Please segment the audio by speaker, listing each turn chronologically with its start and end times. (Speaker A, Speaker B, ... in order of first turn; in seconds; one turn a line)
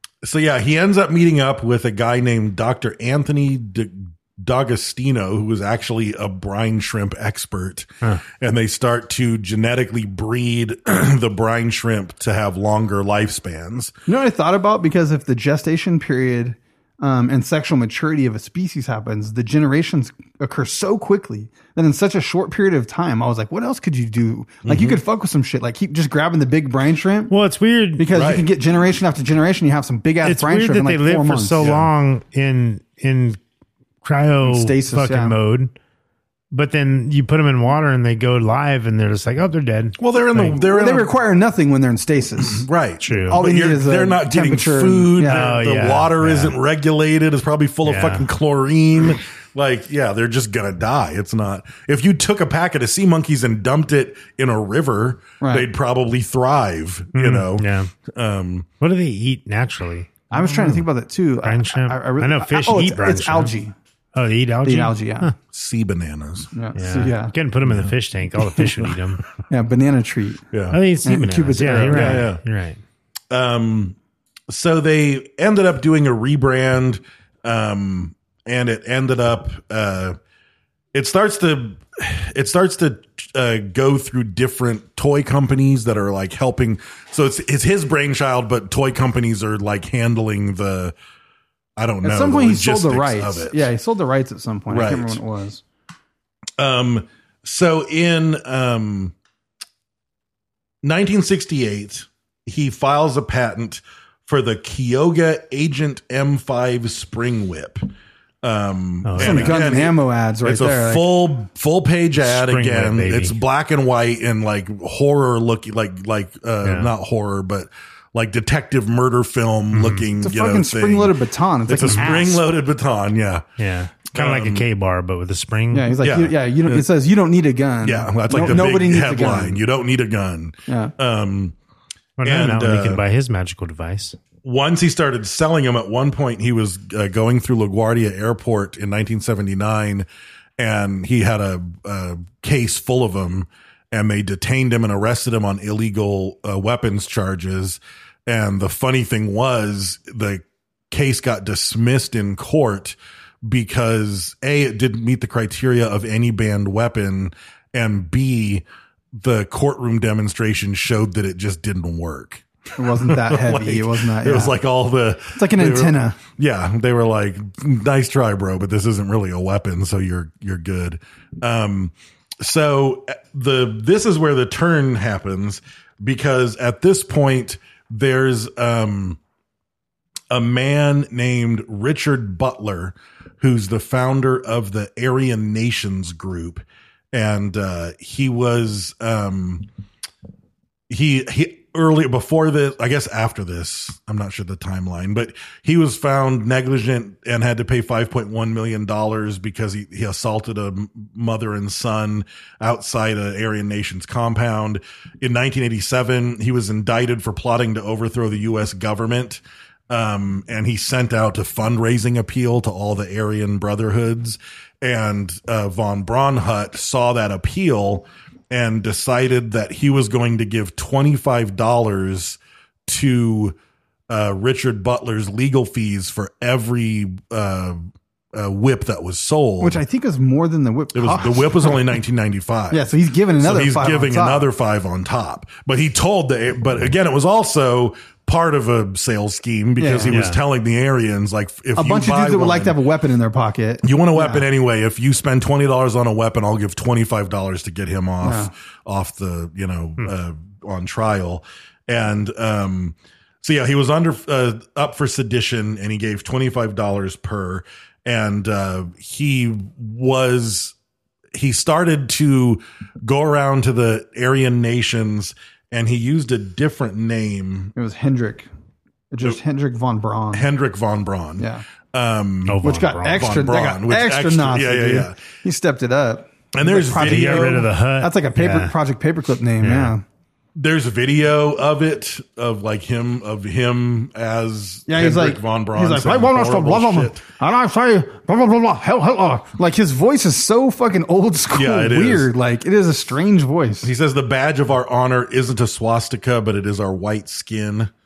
Speaker A: 0.2-13.9
Speaker B: 14.1-27.3
Speaker A: 24.7-24.9
Speaker C: 27.3-28.1
Speaker B: 28.0-31.6
Speaker A: 28.1-28.5
Speaker C: 30.2-33.4
Speaker A: 31.6-31.9
Speaker C: 34.0-35.7
Speaker B: 34.4-35.3
Speaker C: 36.5-40.6
Speaker A: 40.0-41.1
Speaker B: 40.5-42.7
Speaker A: 42.5-58.7
Speaker C: 43.0-43.4
Speaker B: 43.3-45.5
Speaker C: 45.2-46.5
Speaker C: 47.8-48.3
Speaker B: 55.4-55.7
Speaker C: 57.1-57.9
Speaker C: 58.8-60.9
Speaker B: 60.3-63.7
Speaker C: 61.4-63.5
Speaker C: 64.1-65.3
Speaker B: 64.6-65.3
Speaker A: 65.5-66.5
Speaker B: 66.5-67.3
Speaker C: 66.7-69.2
Speaker A: 67.6-67.9
Speaker B: 69.5-70.4
Speaker A: 70.5-70.8
Speaker C: 70.7-72.8
Speaker B: 71.0-72.2
Speaker A: 71.8-72.4
Speaker A: 73.3-74.0
Speaker A: 74.5-80.2
Speaker A: 80.9-90.9
Speaker A: 91.8-93.7
Speaker B: 92.0-95.6
Speaker A: 94.7-95.2
Speaker A: 96.6-99.1
Speaker A: 100.8-107.9
Speaker A: 108.4-123.5
Speaker C: 109.0-109.6
Speaker B: 109.2-111.2
Speaker C: 112.2-113.4
Speaker C: 116.6-116.9
Speaker C: 119.7-120.0
Speaker B: 120.2-122.4
Speaker C: 121.9-122.1
Speaker C: 123.6-125.9
Speaker A: 124.1-124.6
Speaker B: 125.7-129.6
Speaker A: 126.0-126.8
Speaker A: 127.8-131.5
Speaker B: 130.7-130.9
Speaker C: 132.2-134.2
Speaker A: 132.2-133.0
Speaker A: 134.4-140.1
Speaker A: 140.6-179.2
Speaker B: 162.8-164.5
Speaker B: 165.3-166.2
Speaker A: 180.3-189.7
Speaker A: 190.9-223.6
Speaker A: 224.1-227.8
Speaker A: 228.3-229.8
Speaker B: 229.6-231.8
Speaker A: 230.9-232.9
Speaker B: 232.7-234.5
Speaker A: 233.4-242.8
Speaker B: 239.8-240.2
Speaker C: 240.1-240.4
Speaker B: 241.8-244.4
Speaker A: 243.8-260.7
Speaker B: 248.2-248.5
Speaker A: 261.3-267.7
Speaker B: 267.8-268.5
Speaker B: 269.1-270.4
Speaker A: 270.3-275.2
Speaker B: 271.4-271.6
Speaker C: 272.4-273.3
Speaker B: 272.6-280.0
Speaker A: 276.5-277.7
Speaker C: 276.9-278.7
Speaker C: 279.6-279.9
Speaker A: 280.6-287.2
Speaker B: 284.9-293.9
Speaker A: 291.5-292.3
Speaker A: 293.8-297.9